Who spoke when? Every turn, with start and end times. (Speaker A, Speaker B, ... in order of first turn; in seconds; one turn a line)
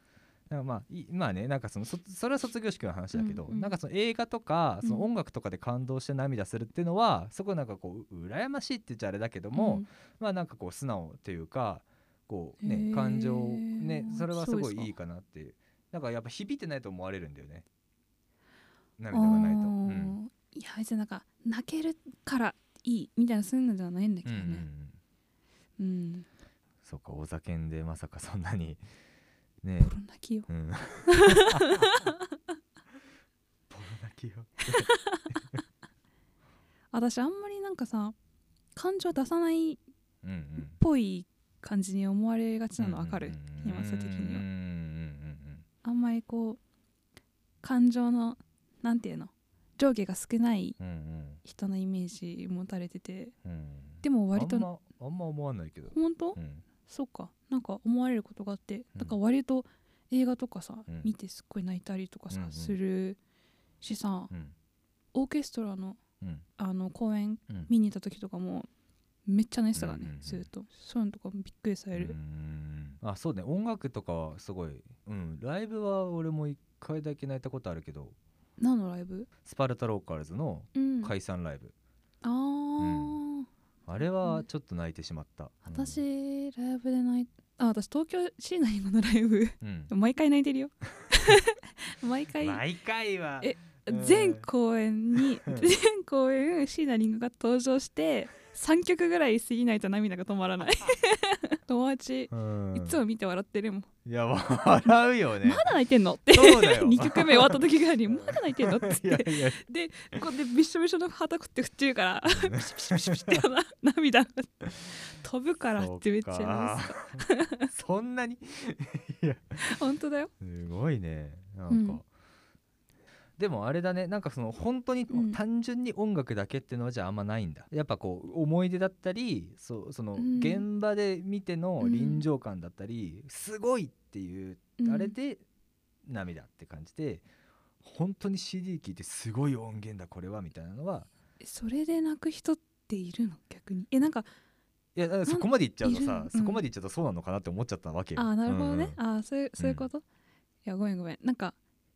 Speaker A: 0.5-17.6
Speaker B: 3.1-3.7
Speaker B: 4.8-5.1
Speaker B: 9.5-9.9
Speaker B: 12.6-14.9
Speaker A: 19.0-20.2
Speaker B: 19.1-24.6
Speaker A: 24.2-25.0
Speaker B: 25.8-26.2
Speaker A: 26.8-28.8
Speaker A: 29.6-29.9
Speaker B: 29.8-30.5
Speaker A: 30.5-31.7
Speaker B: 31.1-32.1
Speaker A: 33.7-34.9
Speaker B: 34.7-35.2
Speaker B: 36.9-38.1
Speaker B: 38.7-39.8
Speaker A: 40.2-40.8
Speaker B: 40.6-44.4
Speaker A: 42.8-45.6
Speaker B: 45.8-46.6
Speaker B: 47.6-50.8
Speaker A: 50.8-51.4
Speaker B: 51.4-53.3
Speaker A: 53.4-56.6
Speaker B: 54.0-54.7
Speaker B: 55.9-63.2
Speaker A: 62.3-62.8
Speaker B: 63.8-64.3
Speaker B: 65.1-66.0
Speaker B: 66.6-68.7
Speaker B: 69.2-72.2
Speaker A: 69.8-70.5
Speaker A: 71.9-78.2
Speaker B: 78.6-79.3
Speaker A: 79.4-81.7
Speaker B: 80.7-81.1
Speaker B: 82.2-83.5
Speaker A: 82.8-83.2
Speaker A: 83.9-86.0
Speaker B: 85.7-92.6
Speaker A: 89.6-89.9
Speaker A: 92.4-94.5
Speaker B: 93.4-103.9
Speaker A: 95.2-95.7
Speaker A: 102.3-103.0
Speaker A: 104.0-105.7
Speaker B: 105.4-117.7
Speaker A: 106.3-109.6
Speaker A: 112.2-113.4
Speaker A: 115.8-119.6
Speaker B: 119.6-120.3
Speaker A: 120.4-122.0
Speaker B: 121.7-122.0
Speaker A: 123.4-135.4
Speaker B: 125.1-125.4
Speaker B: 130.2-130.7
Speaker B: 131.8-132.2
Speaker B: 134.8-135.1
Speaker A: 136.1-137.2
Speaker A: 137.8-141.1
Speaker B: 141.4-144.3
Speaker A: 144.9-149.0
Speaker B: 145.2-146.6
Speaker B: 148.2-150.0
Speaker A: 149.6-149.9
Speaker B: 150.6-151.5